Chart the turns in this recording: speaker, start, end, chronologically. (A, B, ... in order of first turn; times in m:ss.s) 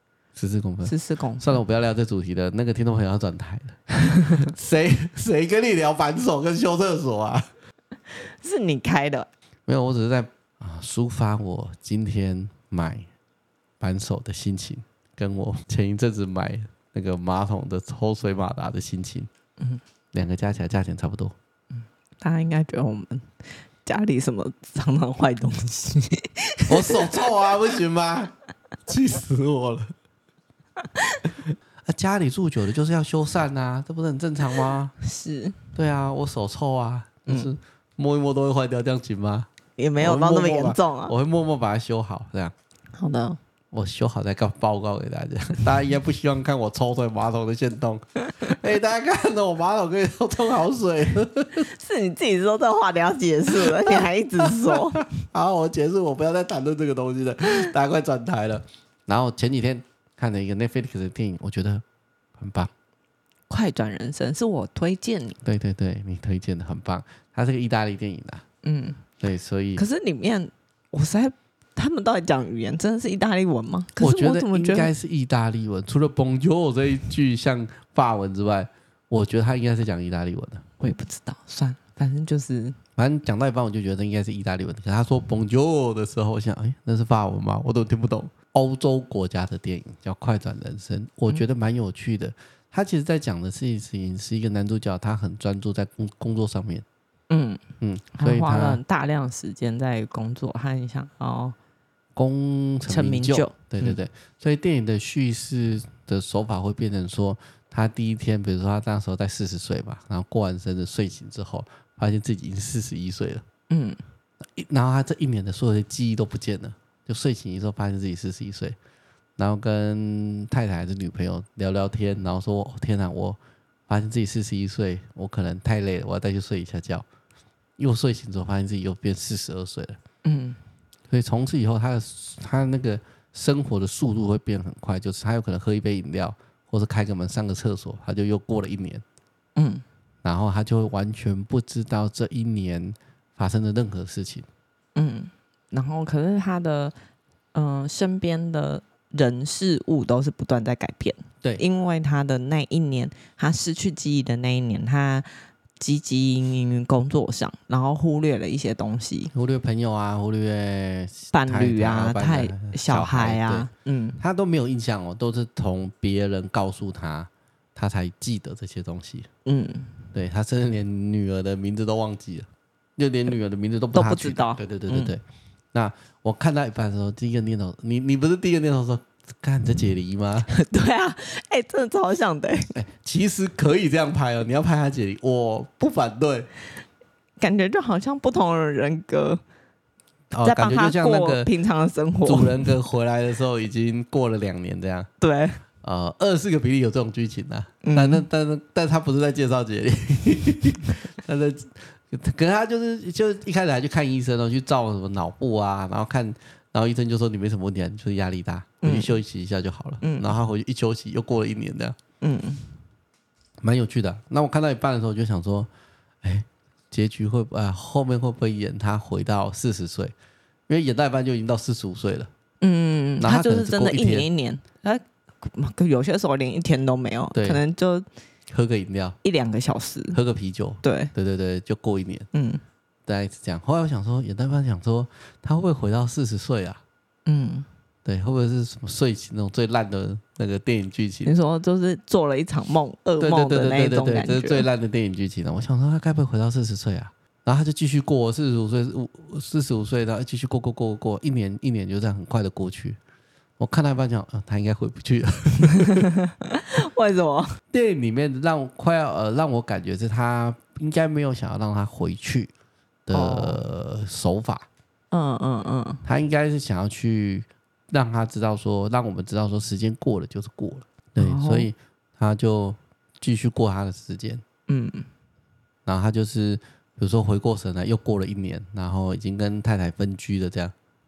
0:00.3-0:07.5 A
0:00.8-0:01.6 B
0:04.1-0:04.4 B
0:08.2-0:09.3 B
0:09.7-0:13.1 A
0:13.8-0:19.3 A
0:20.1-0:21.3 A
0:22.2-0:23.3 B
0:23.8-0:27.1 B
0:26.7-0:28.3 A
0:28.8-0:29.9 A
0:30.9-0:31.2 B
0:31.8-0:34.9 A
0:35.0-0:35.6 B
0:35.7-0:39.5 A
0:39.8-0:41.1 B
0:40.0-0:42.5 A
0:43.0-0:43.4 B
0:43.7-0:51.7 A
0:51.7-0:55.1 B
0:53.6-1:01.8 A
1:02.4-1:02.7 A
1:03.5-1:05.4 B
1:05.4-1:08.4 A
1:08.6-1:09.0 B
1:09.2-1:09.8 A
1:09.8-1:14.9 B
1:14.0-1:20.6 A
1:20.8-1:22.8 B
1:23.0-1:36.8 A
1:37.3-1:37.6 B
1:37.8-1:38.8 A
1:38.2-1:41.5 B
1:42.2-1:53.4 A
1:42.9-1:44.0 B
1:53.7-1:54.0 B
1:54.4-1:58.8 A
1:59.4-2:07.0 A
2:07.8-2:10.0 A
2:10.2-2:10.6 B
2:11.1-2:19.0 A
2:19.6-2:19.8 B
2:20.2-2:24.5 A
2:25.0-2:26.9 B
2:27.5-2:39.3 B
2:39.3-2:43.7 A
2:41.3-2:44.2 B
2:44.2-2:49.3 A
2:49.4-2:50.0 B
2:50.1-2:55.2 A
2:53.9-2:55.1 B
2:55.7-3:00.5 A
3:00.5-3:02.7 B
3:02.7-3:06.5 A
3:07.4-3:09.4 B
3:10.3-3:11.5 A
3:10.4-3:12.7 B
3:12.2-3:15.1 A
3:15.2-3:15.6 B
3:15.8-3:32.0 A
3:17.8-3:18.2 B
3:28.8-3:29.2 B
3:30.0-3:30.3 B
3:32.2-3:32.7 B
3:33.6-3:35.7 A
3:36.2-3:40.1 A
3:40.7-3:42.3 A
3:42.6-3:48.0 B
3:43.2-3:44.3 A
3:47.3-3:47.6 A
3:48.5-3:49.2 A
3:49.2-3:50.2 B
3:50.1-3:52.3 A
3:50.8-3:51.1 B
3:52.3-3:52.6 B
3:53.0-3:56.8 A
3:57.2-3:57.7 B
3:58.0-4:01.3 A
4:01.2-4:04.7 B
4:03.2-4:13.0 A
4:13.6-4:16.0 A
4:15.8-4:17.6 B
4:17.7-4:22.5 A
4:23.1-4:24.6 A
4:23.1-4:23.6 B
4:25.1-4:26.0 B
4:26.0-4:34.4 A
4:31.2-4:31.7 B
4:34.7-4:35.1 B
4:35.8-4:40.7 A